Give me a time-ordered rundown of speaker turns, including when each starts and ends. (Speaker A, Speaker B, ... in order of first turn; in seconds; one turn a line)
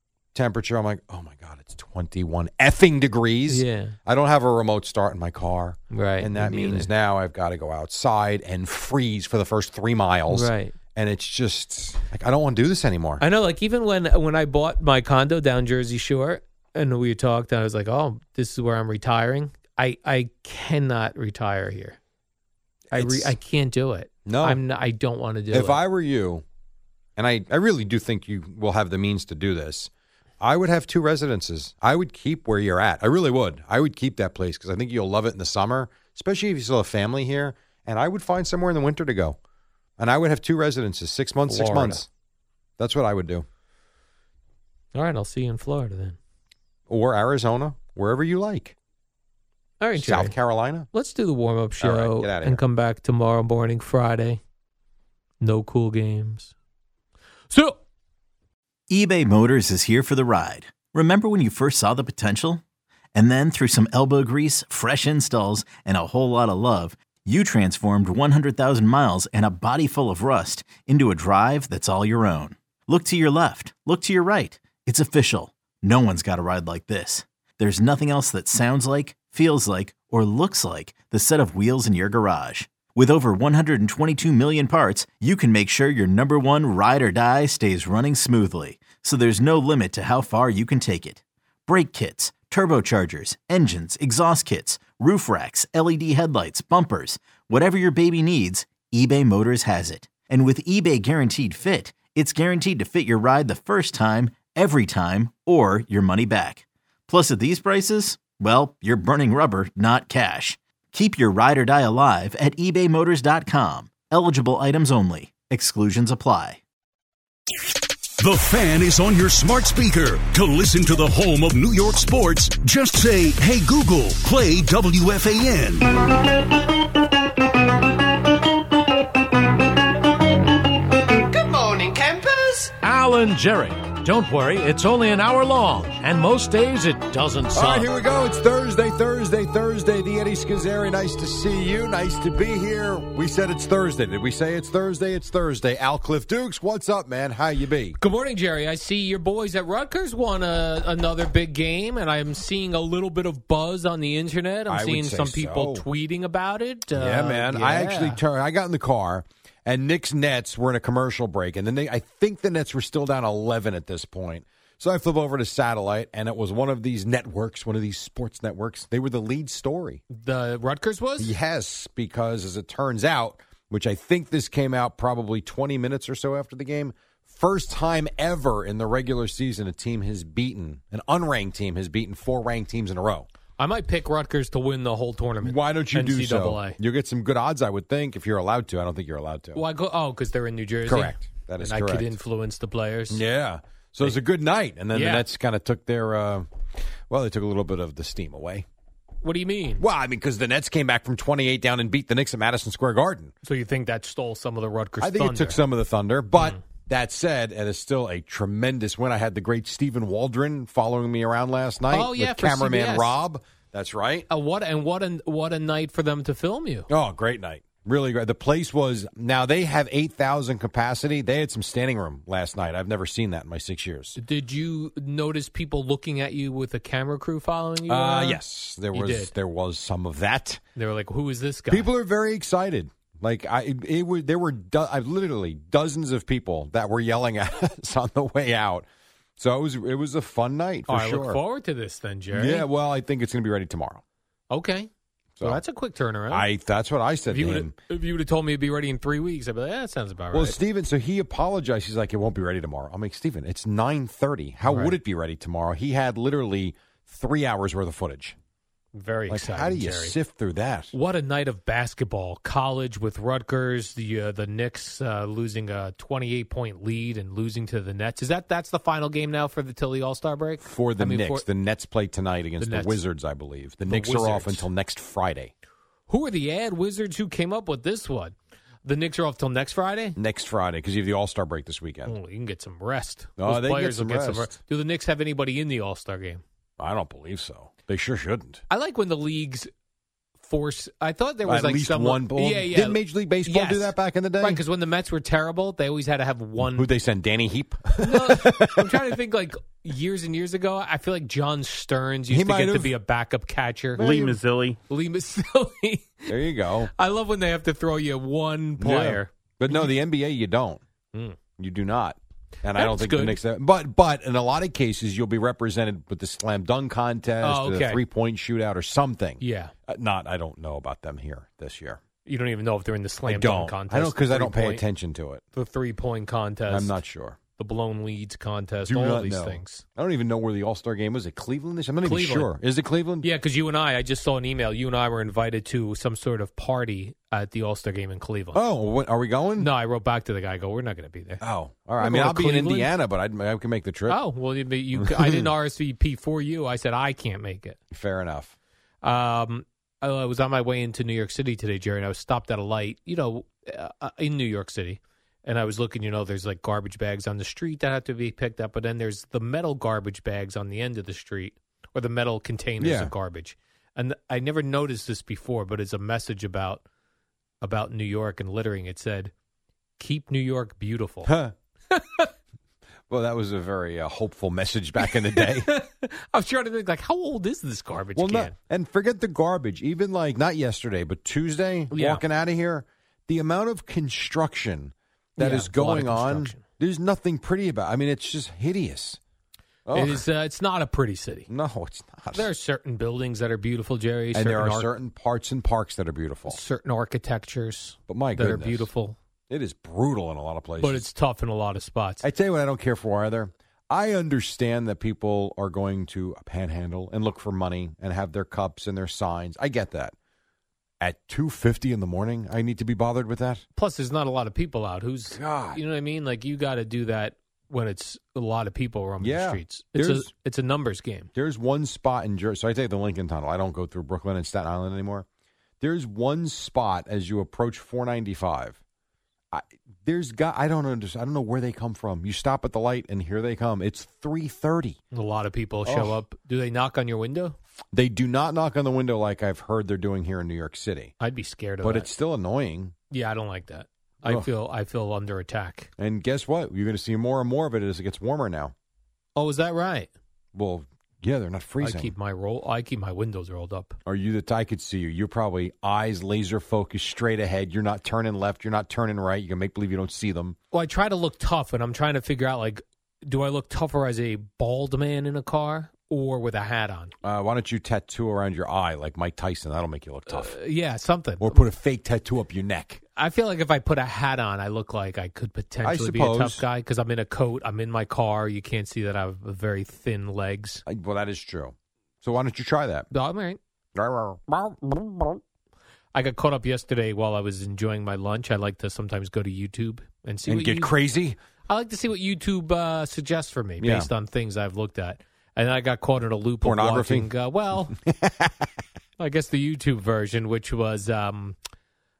Speaker A: 0.3-13.2
Speaker B: 3.5-4.0
Speaker B: 5.9-6.9
Speaker B: 10.3-10.7
Speaker B: 13.2-22.0
Speaker A: 22.9-23.4
Speaker B: 22.9-25.8
Speaker A: 24.2-24.6
Speaker A: 25.5-26.4
Speaker A: 27.1-39.4
Speaker A: 40.0-42.1
Speaker B: 41.5-42.0
Speaker A: 42.8-43.5
Speaker B: 44.9-46.2
Speaker A: 46.9-48.8
Speaker B: 49.8-50.3
Speaker A: 49.9-50.9
Speaker B: 50.9-54.4
Speaker A: 51.8-52.6
Speaker B: 55.4-56.5
Speaker B: 57.5-57.8
Speaker C: 58.9-62.6
Speaker C: 63.1-116.6
Speaker D: 118.2-125.9
Speaker E: 131.3-132.7
Speaker F: 132.8-137.9
Speaker A: 137.5-148.0
Speaker B: 148.0-158.2
Speaker A: 154.7-155.8
Speaker A: 156.9-170.0
Speaker B: 170.1-171.3
Speaker A: 171.2-183.3
Speaker B: 183.6-186.8
Speaker A: 185.4-189.6
Speaker B: 189.5-193.2
Speaker A: 190.8-192.2
Speaker A: 193.1-196.5
Speaker B: 194.9-195.2
Speaker A: 197.1-198.7
Speaker B: 199.2-199.8
Speaker A: 199.8-203.3
Speaker B: 203.4-205.6
Speaker A: 205.0-214.3
Speaker B: 206.3-206.6
Speaker B: 211.9-213.2
Speaker B: 214.3-216.9
Speaker A: 216.9-224.2
Speaker B: 224.2-228.4
Speaker A: 227.9-230.6
Speaker B: 228.9-229.3
Speaker B: 230.8-231.9
Speaker A: 231.7-238.9
Speaker A: 239.4-241.4
Speaker B: 240.9-242.7
Speaker A: 242.3-244.0
Speaker B: 244.5-244.9
Speaker A: 245.3-245.6
Speaker B: 245.4-246.5
Speaker A: 246.3-247.7
Speaker B: 247.3-250.6
Speaker A: 250.3-258.4
Speaker B: 254.6-254.9
Speaker B: 258.9-260.1
Speaker A: 259.3-260.9
Speaker B: 260.9-271.4
Speaker A: 270.6-275.5
Speaker B: 272.6-273.0
Speaker B: 273.8-274.7
Speaker B: 276.1-280.2
Speaker A: 280.1-282.1
Speaker B: 282.1-286.4
Speaker A: 283.4-284.6
Speaker A: 286.8-288.6
Speaker B: 288.7-289.7
Speaker B: 290.4-296.9
Speaker A: 291.4-294.6
Speaker A: 296.7-299.1
Speaker B: 298.0-304.4
Speaker A: 302.3-302.9
Speaker E: 303.9-304.8
Speaker A: 304.0-304.4
Speaker B: 304.9-306.3
Speaker A: 306.3-306.9
Speaker B: 306.9-309.9
Speaker A: 308.8-310.8
Speaker B: 311.1-311.4
Speaker A: 311.6-322.0
Speaker B: 312.7-313.4
Speaker B: 317.4-318.0
Speaker B: 319.4-319.7
Speaker B: 322.2-324.8
Speaker A: 323.2-325.4
Speaker B: 325.5-327.0
Speaker A: 326.7-327.4
Speaker B: 327.6-329.8
Speaker A: 328.8-333.3
Speaker B: 332.0-332.5
Speaker B: 333.2-338.6
Speaker A: 338.5-339.7
Speaker B: 339.6-341.4
Speaker A: 341.4-344.2
Speaker B: 342.0-342.9
Speaker B: 344.1-347.8
Speaker A: 344.9-345.5
Speaker A: 347.9-348.5
Speaker B: 349.0-366.8
Speaker A: 362.8-363.1
Speaker B: 367.6-369.3
Speaker B: 370.0-371.3
Speaker A: 371.2-371.5
Speaker B: 371.9-372.3
Speaker A: 373.1-375.7
Speaker B: 375.0-378.5
Speaker A: 378.1-389.2
Speaker B: 381.9-382.2
Speaker B: 385.4-386.6
Speaker A: 389.9-390.2
Speaker B: 389.9-391.5
Speaker A: 391.5-392.5
Speaker B: 392.3-394.9
Speaker A: 394.3-396.6
Speaker B: 396.5-399.2
Speaker A: 398.1-398.9
Speaker A: 399.5-401.1
Speaker B: 400.8-402.2
Speaker A: 402.2-410.1
Speaker A: 411.0-413.6
Speaker B: 413.8-421.3
Speaker A: 415.3-415.8
Speaker A: 419.2-420.3
Speaker A: 421.3-425.2
Speaker A: 425.8-428.8
Speaker A: 429.5-435.0
Speaker B: 435.1-437.6
Speaker A: 435.9-436.1
Speaker A: 437.9-441.1
Speaker B: 441.2-442.1
Speaker A: 441.8-442.9
Speaker B: 443.1-445.9
Speaker A: 446.0-448.7
Speaker B: 449.4-450.1
Speaker A: 450.5-452.1
Speaker B: 451.8-454.0
Speaker A: 454.0-460.6
Speaker B: 460.7-467.1
Speaker A: 467.2-470.6
Speaker B: 470.3-471.6
Speaker A: 471.4-473.0
Speaker B: 473.1-480.8
Speaker A: 475.8-476.6
Speaker A: 480.9-483.1
Speaker B: 483.1-483.6
Speaker A: 483.9-485.4
Speaker B: 486.1-490.9
Speaker A: 490.4-491.4
Speaker B: 491.7-497.9
Speaker A: 493.8-494.1
Speaker A: 496.6-497.3
Speaker A: 497.9-498.7
Speaker B: 499.2-501.6